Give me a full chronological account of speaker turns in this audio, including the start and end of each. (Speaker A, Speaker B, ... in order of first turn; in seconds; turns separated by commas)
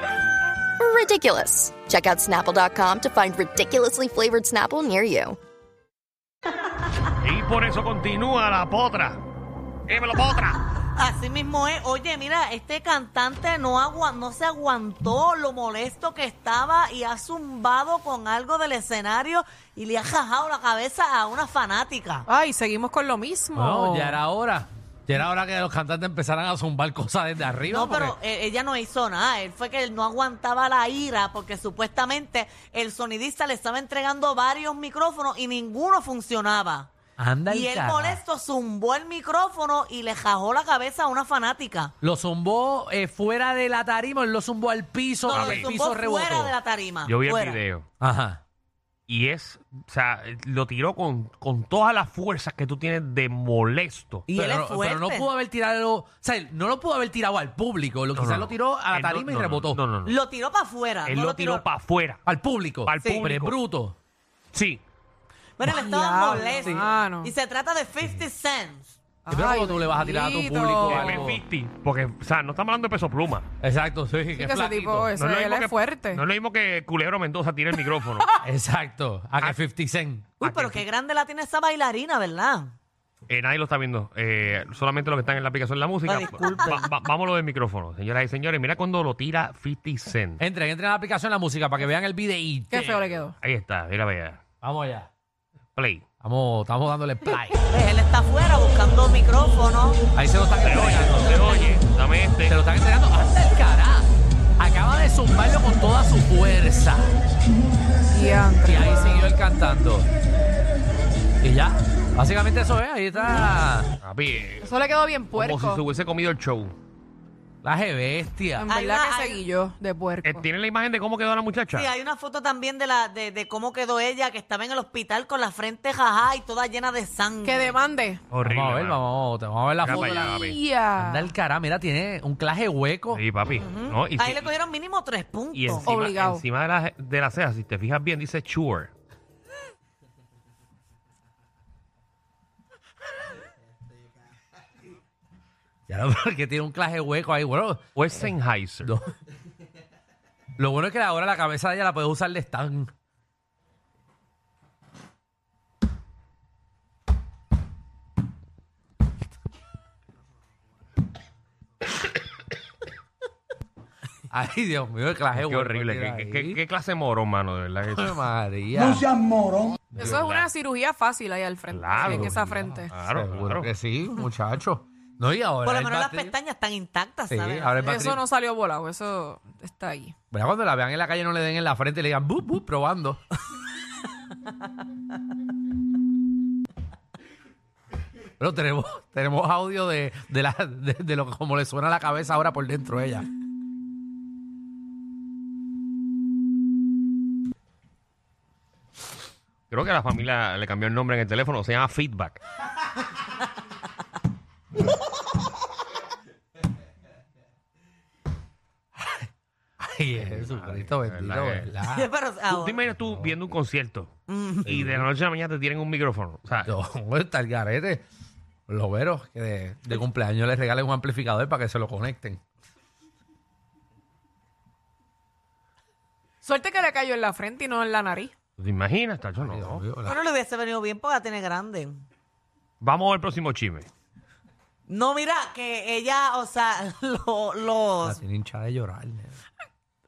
Speaker A: 0.8-5.4, Speaker B: 7.2-9.2, Speaker B: 9.9-10.6, Speaker C: 10.9-22.2, Speaker D: 22.3-24.2, Speaker E: 23.5-28.1, Speaker C: 27.7-36.9, Speaker E: 37.2-38.2, Speaker C: 37.5-41.9, Speaker E: 42.0-46.5, Speaker C: 45.2-47.6, Speaker B: 45.3-45.7, Speaker B: 47.0-47.9, Speaker E: 48.0-48.4, Speaker B: 49.1-54.3, Speaker C: 54.3-55.3, Speaker E: 54.3-59.8, Speaker B: 58.1-60.2, Speaker C: 60.0-61.6, Speaker B: 61.0-62.2, Speaker E: 62.2-64.0, Speaker B: 62.9-63.6, Speaker B: 64.5-64.8, Speaker C: 65.6-69.0, Speaker D: 65.7-67.3, Speaker E: 66.6-66.9, Speaker D: 69.2-71.2, Speaker E: 69.3-71.4, Speaker B: 70.8-73.5, Speaker E: 73.6-75.0, Speaker D: 74.3-76.2, Speaker B: 74.8-78.3, Speaker E: 78.4-80.3, Speaker C: 80.4-82.7, Speaker B: 80.4-80.8, Speaker B: 83.3-90.4, Speaker C: 86.0-86.9, Speaker E: 90.4-93.0, Speaker D: 92.7-93.3, Speaker B: 93.4-94.4, Speaker E: 94.6-95.1, Speaker B: 95.8-96.0, Speaker E: 96.2-97.6, Speaker C: 97.7-100.0, Speaker E: 100.1-101.5, Speaker B: 100.6-102.6, Speaker E: 102.4-107.2, Speaker D: 108.1-109.3, Speaker E: 108.6-110.1, Speaker E: 111.4-113.9, Speaker B: 114.0-114.7, Speaker D: 114.6-115.8, Speaker B: 115.3-116.7, Speaker E: 117.6-118.7, Speaker D: 118.6-120.5, Speaker C: 118.7-119.4, Speaker B: 120.2-121.9, Speaker C: 121.7-127.8, Speaker D: 127.4-128.2, Speaker B: 128.3-129.0, Speaker E: 128.4-133.2, Speaker B: 129.8-130.6, Speaker D: 129.9-131.3, Speaker B: 133.1-134.5, Speaker C: 133.6-135.9, Speaker B: 135.5-138.9, Speaker D: 135.8-136.4, Speaker E: 145.9-148.3, Speaker B: 147.9-148.9, Speaker E: 148.8-149.1, Speaker E: 150.6-152.9, Speaker E: 164.3-166.6, Speaker B: 165.3-168.2, Speaker E: 167.9-169.2, Speaker D: 169.9-172.9, Speaker B: 169.9-170.5, Speaker B: 171.7-172.4, Speaker E: 172.0-176.3, Speaker B: 172.9-173.7, Speaker C: 175.6-178.1, Speaker E: 177.3-178.2, Speaker D: 177.8-180.1, Speaker E: 180.3-183.2, Speaker E: 188.4-193.3, Speaker B: 199.7-202.4, Speaker E: 209.0-209.3, Speaker E: 209.8-212.1, Speaker B: 210.1-211.7, Speaker C: 211.9-212.8, Speaker B: 212.5-214.1, Speaker E: 213.0-213.3, Speaker C: 214.3-214.8, Speaker B: 214.7-216.7, Speaker E: 214.7-215.1, Speaker E: 216.6-218.0, Speaker E: 218.7-222.4, Speaker D: 226.4-228.3, Speaker B: 228.6-229.8, Speaker E: 229.3-230.2, Speaker C: 230.0-232.0, Speaker B: 232.8-233.9, Speaker C: 234.9-238.2, Speaker E: 238.0-239.4